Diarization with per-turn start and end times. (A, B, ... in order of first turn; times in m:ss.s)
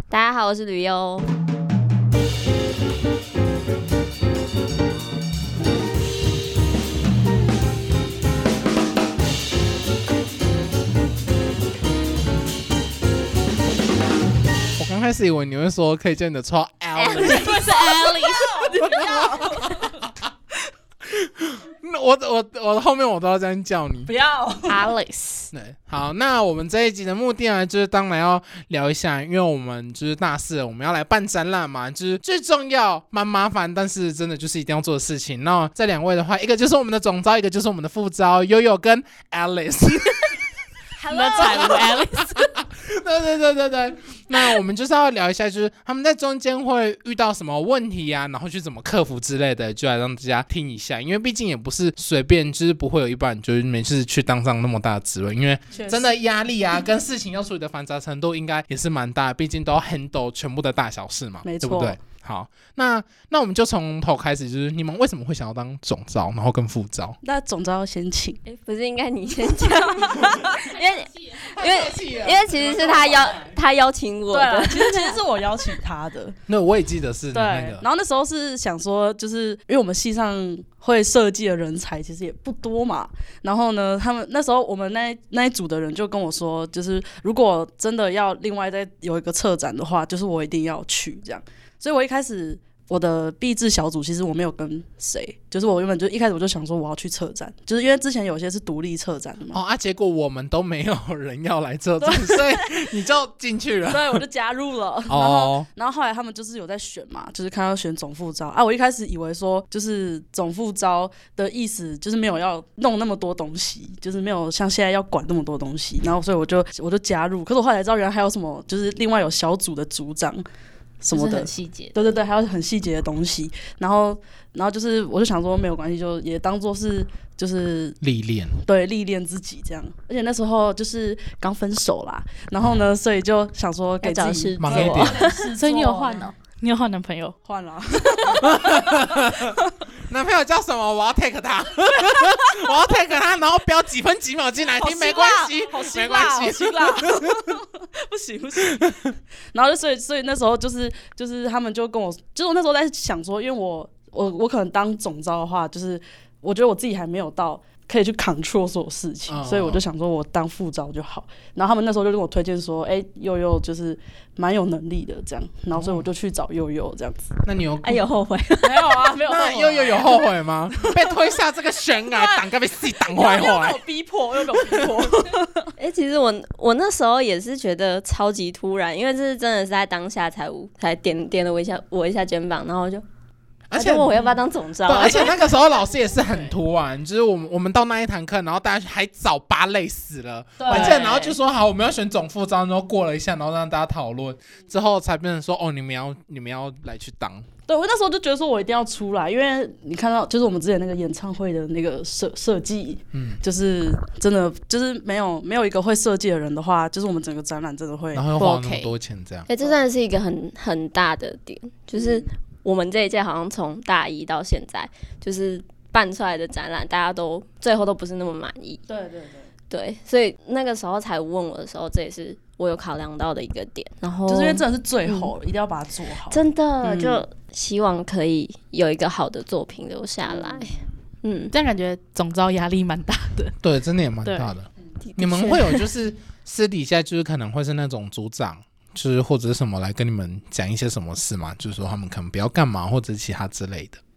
0:00.1-0:01.3 A
0:14.8-0:17.6 B
0:17.0-0:19.0 C
0:17.2-0:20.0 D
0:18.8-0:20.1 B
0:21.0-0:24.1 B
0:24.1-0:24.9 D
0:24.7-0:25.5 C
0:25.5-0:40.4 B
0:41.0-0:41.8 A
0:41.1-0:42.5 C
0:41.3-1:07.2 B
0:55.7-0:56.1 D
1:01.4-1:02.0 D
1:07.2-1:08.4 D
1:08.4-1:15.2 A
1:11.4-1:13.6 B
1:14.3-1:16.4 D
1:16.5-1:17.8 B
1:17.3-1:39.6 D
1:39.5-1:44.2 B
1:42.0-1:42.8 D
1:43.9-2:00.4 D
1:45.1-1:45.7 B
2:01.0-2:08.0 D
2:01.1-2:02.0 C
2:08.0-2:08.6 B
2:08.6-2:16.3 D
2:14.0-2:15.5 A
2:14.6-2:15.2 B
2:15.6-2:17.4 C
2:17.4-2:19.6 D
2:18.3-2:27.5 B
2:24.8-2:47.4 D
2:39.3-2:39.8 B
2:45.7-2:46.0 B
2:47.4-2:48.0 B
2:47.8-2:48.9 A
2:48.6-2:51.2 D
2:49.3-2:53.8 B
2:52.1-2:55.7 D
2:54.5-2:55.1 B
2:55.8-3:03.0 A
3:03.7-3:04.2 B
3:03.8-3:05.4 A
3:04.8-3:17.5 B
3:10.6-3:11.1 D
3:10.7-3:11.4 C
3:17.7-3:28.3 D
3:23.1-3:23.4 B
3:28.1-3:29.5 B
3:28.4-3:28.9 C
3:29.5-3:38.8 A
3:32.0-3:32.3 D
3:38.9-3:39.5 D
3:39.7-3:45.3 A
3:44.3-3:47.2 D
3:46.3-3:51.5 A
3:50.2-3:50.9 D
3:51.5-3:53.6 C
3:53.6-4:04.0 B
3:54.3-3:54.5 C
3:55.0-3:55.8 A